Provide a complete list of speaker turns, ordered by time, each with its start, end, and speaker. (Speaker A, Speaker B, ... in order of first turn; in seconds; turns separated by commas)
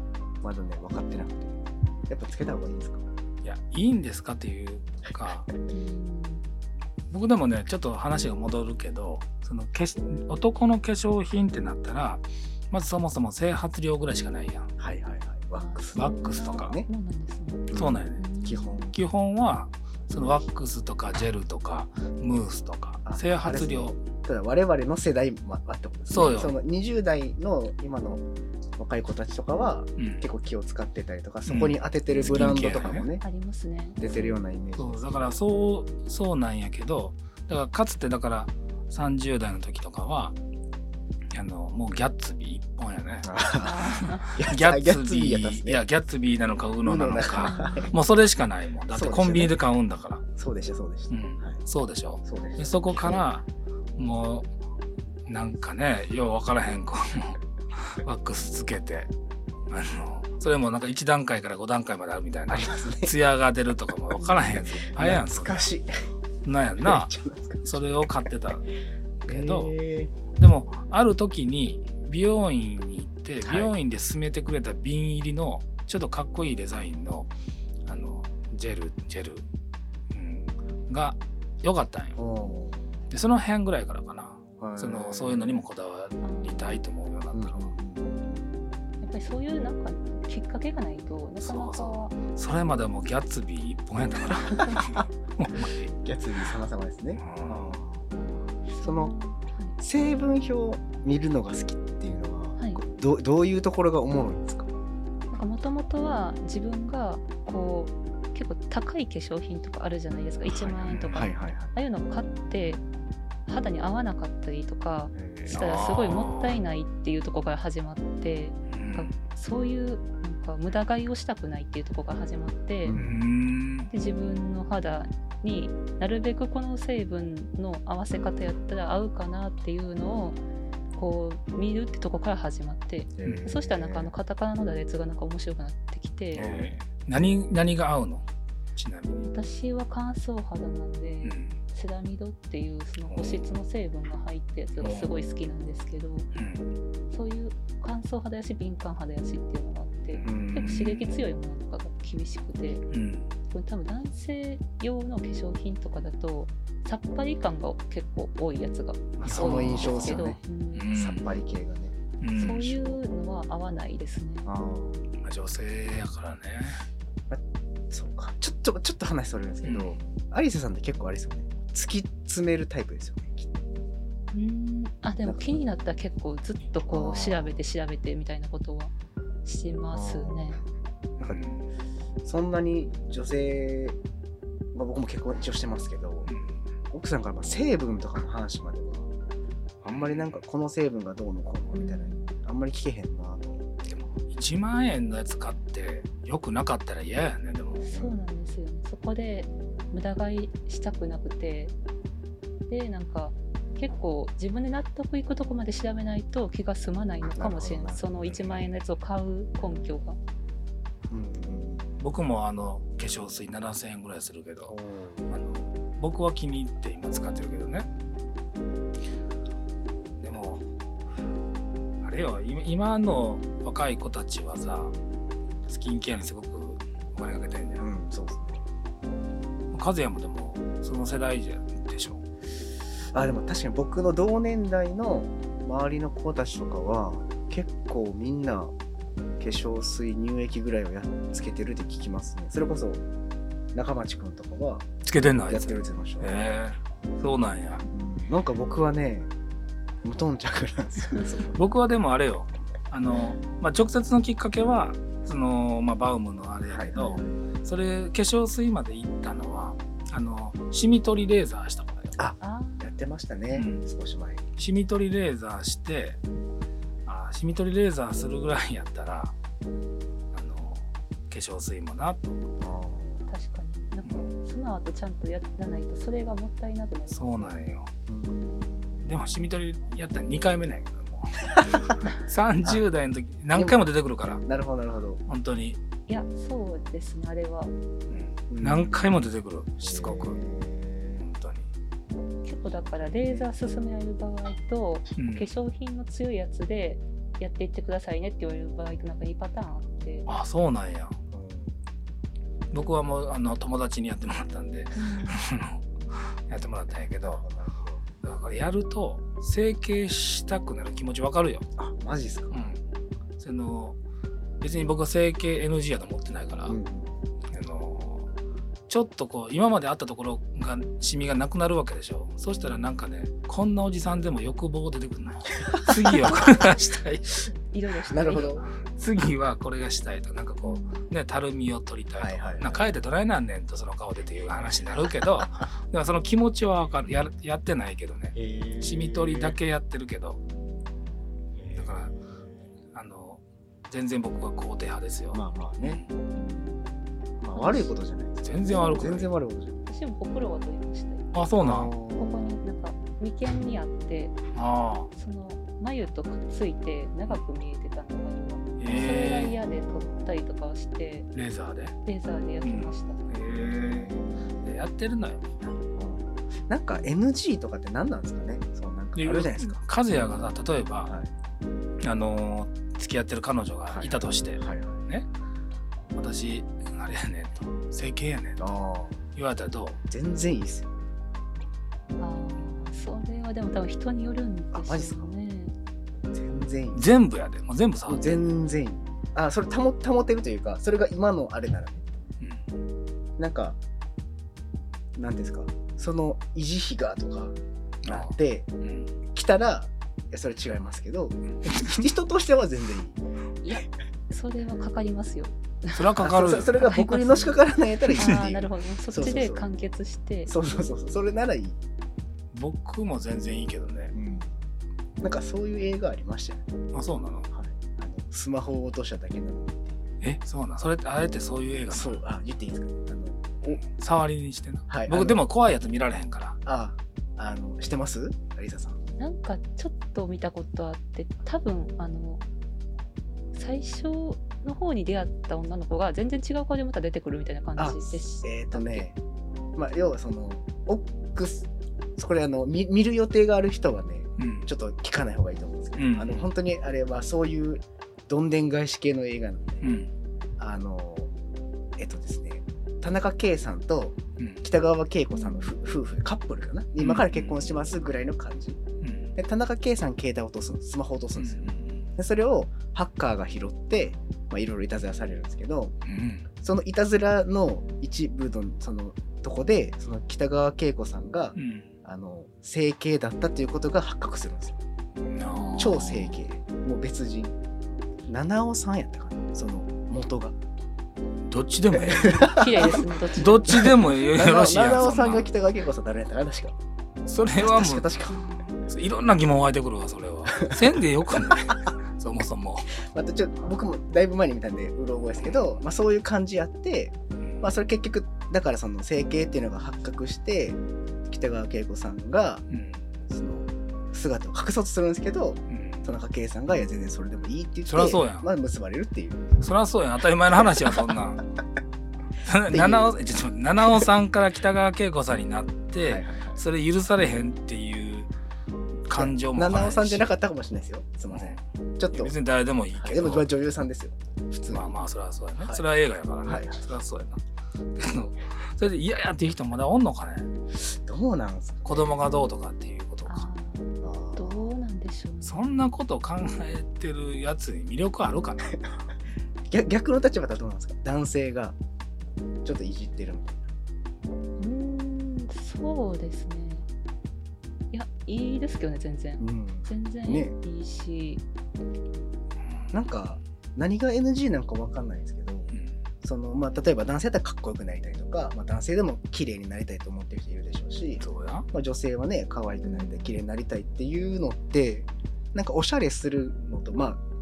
Speaker A: 0.4-3.0, Speaker B: 3.4-5.5, Speaker C: 5.7-6.4, Speaker B: 7.1-14.7, Speaker A: 14.8-16.9, Speaker C: 15.6-18.9, Speaker B: 16.0-16.7, Speaker A: 17.7-18.9, Speaker B: 17.7-18.2, Speaker B: 18.9-24.0, Speaker A: 23.1-28.2, Speaker B: 26.1-26.5, Speaker A: 28.8-33.2, Speaker B: 30.0-30.2, Speaker B: 31.5-33.1, Speaker C: 33.2-34.4, Speaker A: 34.0-35.2, Speaker B: 34.8-40.4, Speaker B: 41.3-43.4, Speaker A: 43.2-45.8, Speaker C: 43.6-44.3, Speaker B: 44.0-50.2, Speaker A: 46.8-48.0, Speaker C: 47.3-47.9, Speaker A: 48.9-49.6, Speaker A: 50.4-51.6, Speaker B: 51.1-53.4, Speaker A: 52.2-53.2, Speaker B: 54.0-54.5, Speaker B: 55.3-59.1, Speaker B: 59.7-65.7, Speaker A: 62.5-63.1, Speaker A: 64.2-65.9, Speaker B: 66.4-67.1, Speaker A: 66.8-67.8, Speaker B: 67.7-68.7, Speaker B: 69.2-69.7, Speaker A: 69.3-70.1, Speaker B: 70.3-77.3, Speaker A: 73.4-73.8, Speaker B: 77.9-79.5, Speaker B: 80.1-82.2, Speaker A: 82.2-82.8, Speaker B: 83.1-87.7, Speaker A: 84.6-85.7, Speaker C: 86.2-86.8, Speaker A: 87.3-88.5, Speaker C: 89.0-92.2, Speaker B: 91.4-95.9, Speaker A: 94.3-95.0, Speaker A: 95.7-97.9, Speaker B: 97.2-97.8, Speaker C: 98.2-99.8, Speaker A: 98.8-99.1, Speaker A: 99.8-104.7, Speaker C: 102.6-102.8, Speaker C: 105.3-112.8, Speaker B: 110.6-111.1, Speaker A: 111.1-111.8, Speaker C: 113.5-123.0, Speaker A: 115.2-115.5, Speaker B: 115.5-116.6, Speaker B: 118.7-119.1, Speaker A: 122.8-123.3, Speaker B: 122.9-123.9, Speaker C: 123.9-130.4, Speaker C: 131.0-136.5, Speaker A: 133.2-134.1, Speaker B: 133.2-133.5, Speaker B: 136.3-138.2, Speaker A: 136.4-136.8, Speaker B: 138.8-139.3, Speaker C: 139.2-146.3, Speaker B: 141.2-141.6, Speaker B: 143.1-143.4, Speaker B: 144.8-145.1, Speaker B: 146.3-146.7, Speaker C: 147.1-152.9, Speaker B: 150.1-151.2, Speaker A: 150.2-150.8, Speaker B: 152.9-153.3, Speaker C: 153.5-160.9, Speaker A: 159.2-160.4, Speaker B: 159.2-161.3, Speaker A: 160.9-161.9, Speaker B: 162.2-162.9, Speaker C: 162.3-164.5, Speaker A: 164.5-165.0, Speaker B: 165.2-166.8, Speaker A: 167.3-173.6, Speaker B: 169.6-170.0, Speaker C: 174.3-178.9, Speaker A: 175.2-175.5, Speaker A: 176.9-177.6, Speaker C: 179.4-180.6, Speaker A: 179.9-180.6, Speaker B: 181.2-181.7, Speaker A: 182.2-184.0, Speaker A: 184.7-186.3, Speaker B: 186.3-186.6, Speaker A: 186.9-189.1, Speaker A: 189.8-193.7, Speaker B: 189.9-190.4, Speaker C: 191.7-192.3, Speaker B: 193.9-197.9, Speaker C: 197.8-201.7, Speaker A: 197.9-198.2, Speaker C: 202.7-210.2, Speaker A: 207.3-208.7, Speaker A: 211.1-211.9, Speaker B: 212.0-214.8, Speaker A: 214.7-215.3, Speaker B: 215.3-217.9, Speaker B: 220.2-220.6, Speaker B: 222.0-224.9, Speaker B: 225.7-227.9, Speaker A: 227.8-228.6, Speaker B: 229.7-232.2, Speaker A: 233.1-238.7, Speaker A: 239.4-243.0, Speaker A: 243.7-244.9, Speaker B: 245.1-247.8, Speaker A: 245.4-246.3, Speaker A: 247.9-249.3, Speaker A: 250.0-251.6, Speaker B: 251.5-262.2, Speaker A: 256.7-257.3, Speaker C: 257.0-257.2, Speaker A: 262.2-264.4, Speaker C: 262.4-262.9, Speaker B: 263.5-263.9, Speaker B: 264.6-266.2, Speaker B: 267.1-269.4, Speaker B: 270.3-272.4, Speaker A: 272.6-273.3, Speaker C: 273.3-277.6, Speaker B: 277.1-277.9, Speaker A: 278.1-279.0, Speaker B: 279.0-284.4, Speaker A: 283.5-283.8, Speaker A: 284.4-285.2, Speaker B: 285.3-285.8, Speaker C: 286.1-287.7, Speaker B: 288.1-290.4, Speaker A: 288.5-289.1, Speaker A: 289.8-291.2, Speaker B: 291.2-291.7, Speaker C: 292.4-300.3, Speaker A: 292.8-293.5, Speaker B: 295.2-295.5, Speaker B: 300.3-301.2, Speaker A: 301.3-301.8, Speaker B: 302.7-307.4, Speaker C: 304.9-305.4, Speaker A: 307.2-308.0, Speaker B: 308.2-311.7, Speaker A: 311.8-312.5, Speaker B: 312.5-312.8, Speaker B: 313.4-314.0, Speaker B: 314.6-316.8, Speaker A: 316.7-317.2, Speaker B: 317.5-318.3, Speaker B: 318.9-327.5, Speaker A: 325.6-326.5, Speaker C: 327.7-328.6, Speaker A: 328.1-328.7, Speaker B: 328.8-340.4, Speaker C: 330.6-331.1, Speaker A: 332.2-332.8, Speaker A: 338.4-339.6, Speaker A: 341.6-342.5, Speaker B: 341.8-342.2, Speaker B: 342.9-346.1, Speaker A: 345.3-346.0, Speaker C: 346.4-346.8, Speaker A: 347.4-349.8, Speaker C: 347.6-347.9, Speaker B: 348.4-349.3, Speaker C: 348.7-349.2, Speaker C: 349.9-351.3, Speaker B: 351.3-351.9, Speaker A: 351.6-352.6, Speaker C: 352.2-354.4, Speaker B: 354.5-355.1, Speaker C: 355.1-361.3, Speaker B: 358.8-359.6, Speaker A: 358.9-360.3, Speaker B: 361.3-362.0, Speaker C: 362.1-363.2, Speaker B: 362.6-365.7, Speaker A: 363.7-364.8, Speaker A: 366.0-369.8, Speaker B: 369.2-371.1, Speaker B: 372.0-375.3, Speaker A: 373.9-375.0, Speaker B: 376.1-378.6, Speaker A: 378.6-379.2, Speaker B: 379.4-380.0, Speaker A: 380.1-380.9, Speaker C: 382.2-385.7, Speaker A: 384.7-385.3, Speaker A: 386.3-387.1, Speaker B: 386.9-388.4, Speaker A: 388.1-392.1, Speaker A: 393.4-393.8, Speaker A: 395.2-398.7, Speaker B: 398.0-399.1, Speaker A: 399.3-403.2, Speaker B: 401.6-402.0, Speaker C: 403.6-406.2, Speaker B: 405.9-406.8, Speaker A: 406.2-409.7, Speaker C: 406.7-407.6, Speaker C: 408.1-410.5, Speaker A: 410.5-411.8, Speaker B: 412.5-414.1, Speaker A: 414.1-414.6, Speaker A: 415.2-416.6, Speaker B: 416.9-417.5, Speaker A: 417.5-420.0, Speaker B: 420.2-422.2, Speaker A: 421.9-423.8, Speaker B: 423.9-426.6, Speaker A: 424.9-425.4, Speaker A: 426.6-429.0, Speaker C: 429.2-432.4, Speaker C: 433.5-439.1, Speaker A: 437.8-439.2, Speaker A: 439.8-449.8, Speaker B: 444.4-444.7, Speaker B: 446.0-446.5, Speaker B: 449.8-450.1, Speaker A: 450.6-451.3, Speaker A: 452.0-458.8, Speaker C: 455.3-455.7, Speaker B: 457.0-457.6, Speaker B: 459.0-459.3, Speaker A: 459.4-465.9, Speaker B: 461.4-462.1, Speaker B: 466.1-466.5, Speaker A: 466.6-474.8, Speaker B: 471.6-471.9, Speaker B: 475.3-476.4, Speaker A: 475.8-477.6, Speaker A: 478.3-480.6, Speaker B: 481.5-485.5, Speaker A: 481.9-483.1, Speaker C: 482.1-484.0, Speaker A: 483.7-486.8, Speaker B: 487.3-488.1, Speaker A: 487.5-488.6, Speaker C: 488.4-488.7, Speaker B: 488.8-492.9, Speaker A: 493.0-502.6, Speaker B: 497.4-497.7, Speaker B: 502.7-503.0, Speaker A: 503.3-509.6, Speaker B: 505.7-506.1, Speaker B: 507.9-508.5, Speaker B: 509.6-511.4, Speaker A: 510.6-511.0, Speaker B: 512.4-518.3, Speaker A: 512.7-513.1, Speaker A: 516.0-516.6, Speaker B: 519.1-520.3, Speaker A: 519.1-522.4, Speaker B: 521.3-521.6, Speaker B: 522.1-523.5, Speaker A: 523.0-525.0, Speaker B: 524.7-527.4, Speaker A: 526.5-526.8, Speaker B: 528.0-530.5, Speaker A: 530.7-532.2, Speaker B: 531.9-533.5, Speaker C: 533.3-535.8, Speaker A: 534.0-534.7, Speaker B: 535.4-538.9, Speaker A: 539.7-541.8, Speaker A: 542.6-543.7, Speaker C: 544.6-546.9, Speaker C: 547.9-551.4, Speaker A: 549.4-550.5, Speaker A: 552.9-567.2, Speaker B: 561.2-561.7, Speaker C: 562.8-563.3